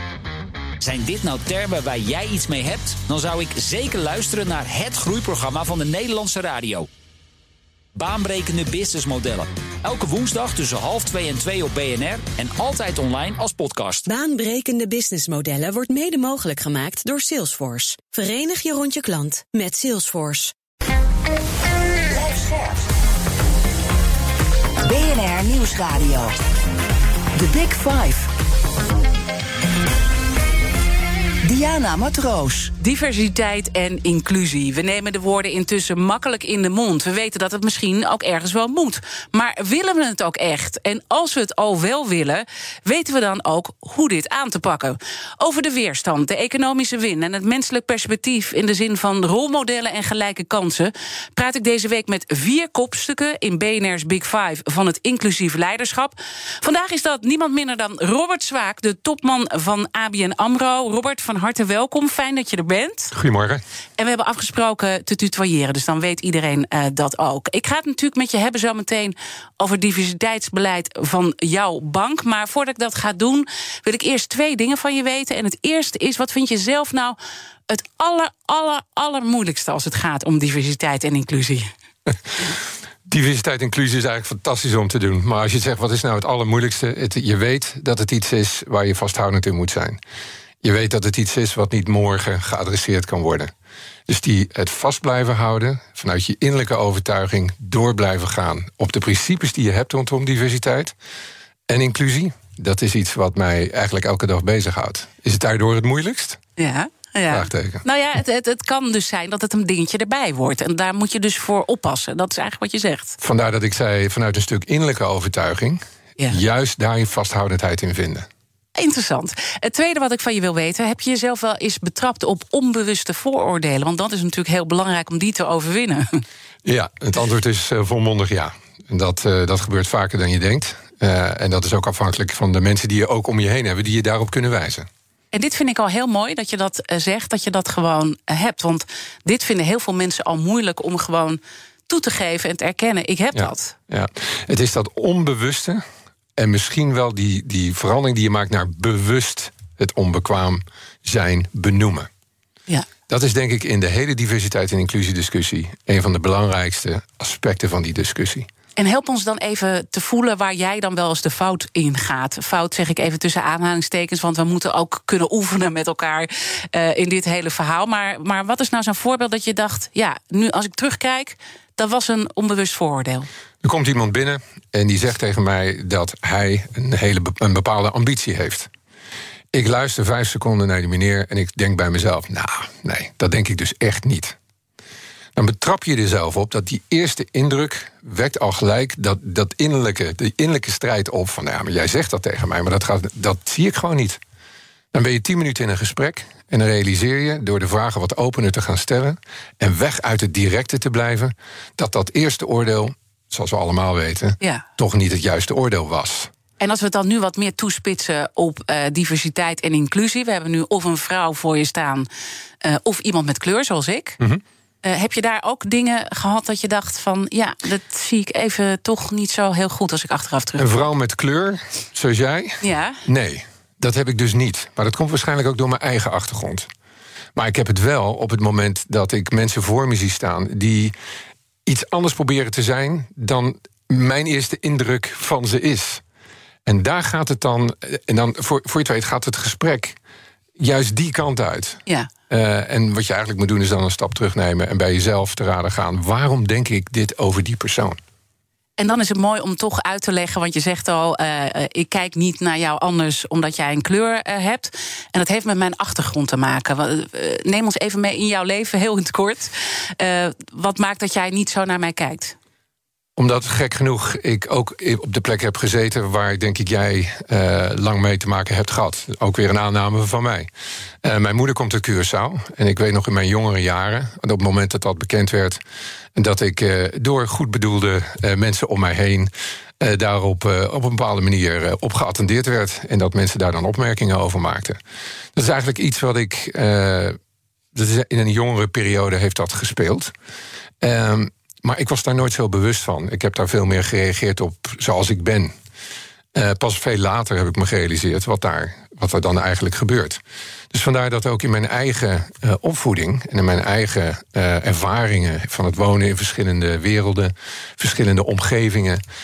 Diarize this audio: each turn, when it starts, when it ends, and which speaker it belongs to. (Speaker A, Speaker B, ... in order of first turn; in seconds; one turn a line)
Speaker A: 0.8-6.9
Speaker A: 8.0-14.1
Speaker B: 14.1-20.5
Speaker C: 22.1-22.8
Speaker C: 24.8-26.3
Speaker C: 27.4-28.3
Speaker C: 31.4-32.7
Speaker D: 32.8-63.1
Speaker E: 63.1-63.6
Speaker D: 64.0-77.2
Speaker D: 77.7-81.7
Speaker E: 82.1-82.5
Speaker E: 83.0-90.0
Speaker E: 90.6-93.5
Speaker E: 94.1-100.9
Speaker E: 101.7-106.4
Speaker D: 106.6-113.2
Speaker E: 107.3-107.8
Speaker E: 113.2-118.3
Speaker D: 118.7-126.2
Speaker E: 126.6-134.9
Speaker D: 135.3-143.8
Speaker E: 143.3-145.8
Speaker E: 146.4-152.1
Speaker E: 153.1-158.5
Speaker D: 158.8-173.3
Speaker E: 173.6-178.7
Speaker E: 179.5-184.4
Speaker E: 185.4-194.2
Speaker E: 194.9-206.3
Speaker D: 206.6-212.1
Speaker D: 212.6-214.2
Speaker D: 214.8-220.7
Speaker E: 220.6-226.7
Speaker D: 222.6-223.0
Speaker E: 227.4-230.9
Speaker E: 231.7-236.0
Speaker E: 236.7-240.0
Speaker E: 240.6-248.0
Speaker D: 248.8-262.4
Speaker E: 263.2-270.5
Speaker E: 271.0-275.6
Speaker E: 276.1-284.8
Speaker E: 285.4-287.2
Speaker E: 287.7-290.1
Speaker E: 290.8-295.5
Speaker E: 296.3-300.2
Speaker E: 300.7-309.0